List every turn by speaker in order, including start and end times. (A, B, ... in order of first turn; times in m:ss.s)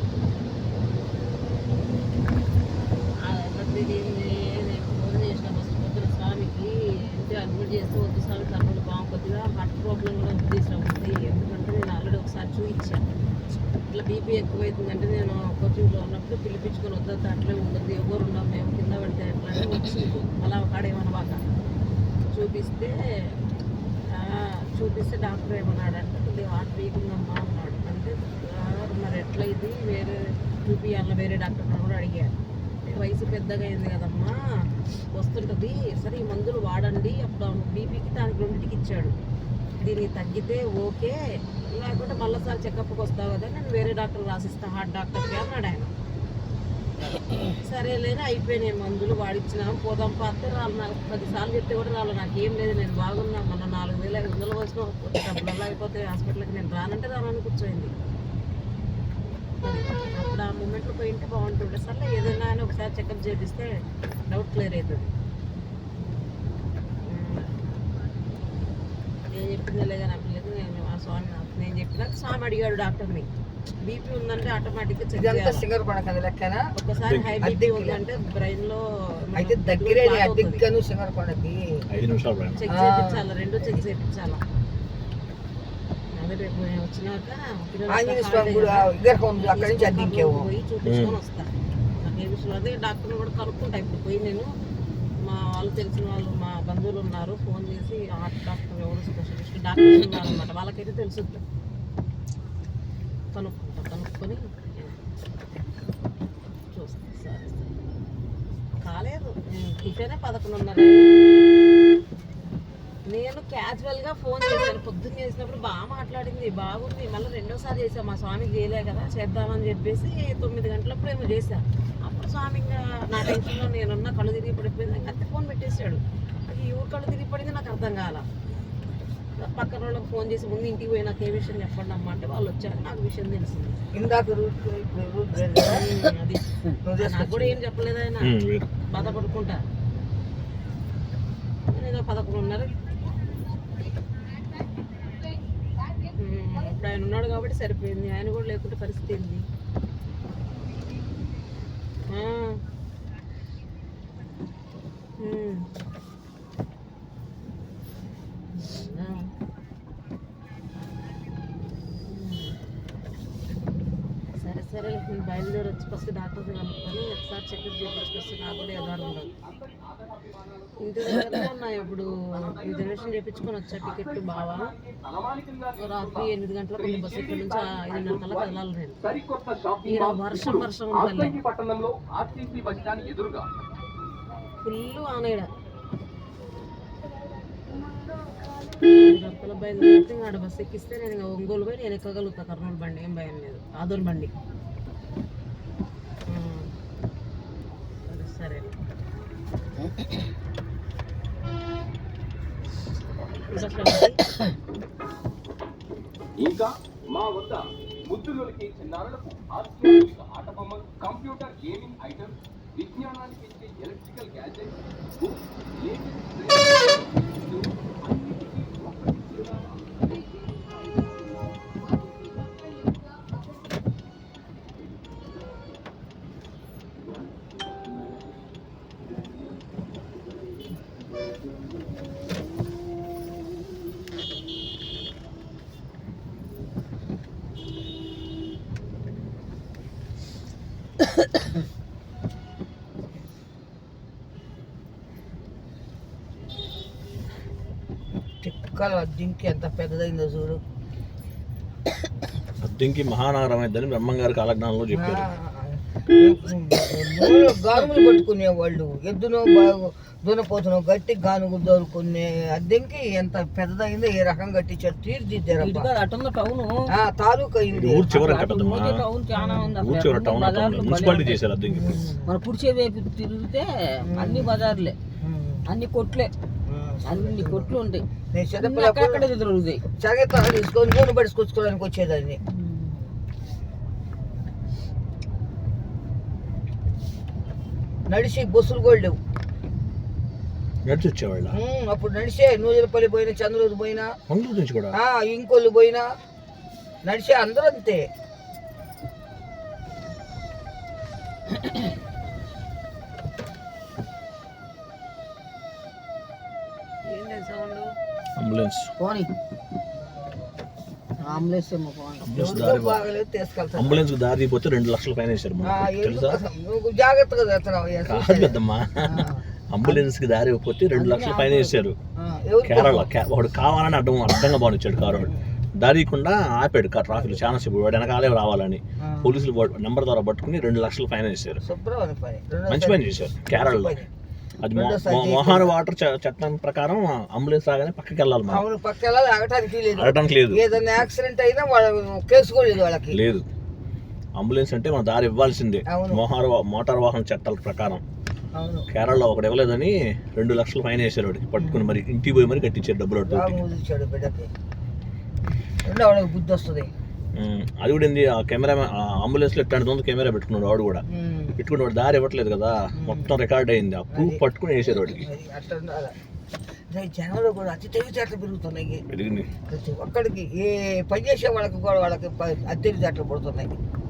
0:03.2-0:13.0 A
0:13.9-0:21.4 A
0:22.3-0:23.3 A
0:24.1-0:32.3 A
0:32.8-0:34.4 A
0:35.1-0:39.1 A
0:39.8-0:41.2 A
0:41.7-0:45.9 A
0:47.6-0:57.9 A
0:59.6-1:05.1 A
1:07.0-1:07.5 A
1:09.3-1:13.3 A
1:13.8-1:15.6 A
1:15.2-1:16.7 B
1:16.8-1:20.6 A
1:17.1-1:17.5 C
1:17.4-1:18.0 B
1:19.3-1:21.8 B
1:21.9-1:22.7 C
1:22.6-1:24.4 A
1:22.7-1:23.8 B
1:26.1-1:31.5 A
1:27.9-1:30.5 B
1:30.8-1:31.2 C
1:32.0-1:34.5 A
1:35.2-1:41.4 A
1:43.3-1:45.0 A
1:46.7-1:47.7 A
1:48.8-1:51.1 A
1:53.1-2:08.2 A
2:09.4-2:13.8 A
2:13.9-2:15.9 B
2:15.6-2:16.4 A
2:16.8-2:17.6 B
2:17.0-2:18.3 A
2:18.2-2:18.7 C
2:18.9-2:19.6 A
2:18.9-2:19.4 B
2:21.7-2:22.7 A
2:26.0-2:29.5 A
2:32.1-2:32.6 A
2:35.2-2:35.7 A
2:38.5-2:39.3 A
2:42.0-2:42.6 A
2:44.4-2:49.3 A
2:48.0-3:03.5 D
2:50.8-2:54.7 A
2:55.8-2:59.0 A
2:59.9-3:01.4 A
3:04.6-3:05.5 A
3:08.8-3:14.3 A
3:16.3-3:16.7 A
3:18.1-3:18.7 A
3:23.5-3:24.2 A
3:26.4-3:39.8 D
4:08.4-4:10.6 B
4:12.6-4:15.3 C
4:14.9-4:25.9 B
4:25.6-4:26.8 E
4:26.9-4:28.1 B
4:27.7-4:29.0 C
4:28.1-4:31.4 E
4:29.4-4:29.7 B
4:29.8-4:32.2 C
4:31.6-4:32.3 B
4:32.2-4:35.0 E
4:34.1-4:34.5 B
4:35.2-4:35.6 B
4:35.7-4:36.3 E
4:36.6-4:37.7 B
4:37.0-4:38.0 E
4:38.3-4:39.3 B
4:38.6-4:39.8 E
4:40.0-4:42.4 B
4:42.5-4:43.1 E
4:48.1-4:49.2 B
4:50.9-4:51.6 C
4:51.5-4:54.1 B
4:54.3-4:55.0 C
4:54.9-4:56.0 B
4:57.0-4:58.0 B
5:07.1-5:07.9 A
5:08.4-5:08.9 C
5:09.0-5:09.3 E
5:11.2-5:12.4 E
5:12.2-5:13.0 C
5:12.3-5:14.1 B
5:13.8-5:16.4 C
5:15.6-5:20.0 B
5:18.0-5:22.0 C
5:20.9-5:21.8 E
5:22.3-5:23.1 B
5:22.6-5:31.6 C
5:25.1-5:25.4 B
5:29.0-5:29.4 B
5:31.6-5:34.1 B
5:32.7-5:34.0 C
5:34.6-5:38.6 C
5:34.7-5:35.7 B
5:38.5-5:43.2 B
5:39.9-5:40.6 C
5:43.1-5:43.5 C
5:44.4-5:48.0 C
5:45.9-5:46.2 B
5:48.5-5:48.9 B
5:48.9-5:53.6 C
5:51.6-5:52.0 B
5:53.2-5:54.5 B
5:55.9-5:56.9 B
5:57.4-6:01.0 C
6:01.1-6:01.6 B
6:01.6-6:05.3 C
6:02.9-6:03.4 B
6:04.1-6:04.4 B
6:05.0-6:06.2 B
6:06.9-6:09.0 B
6:09.1-6:09.5 C
6:09.7-6:13.8 B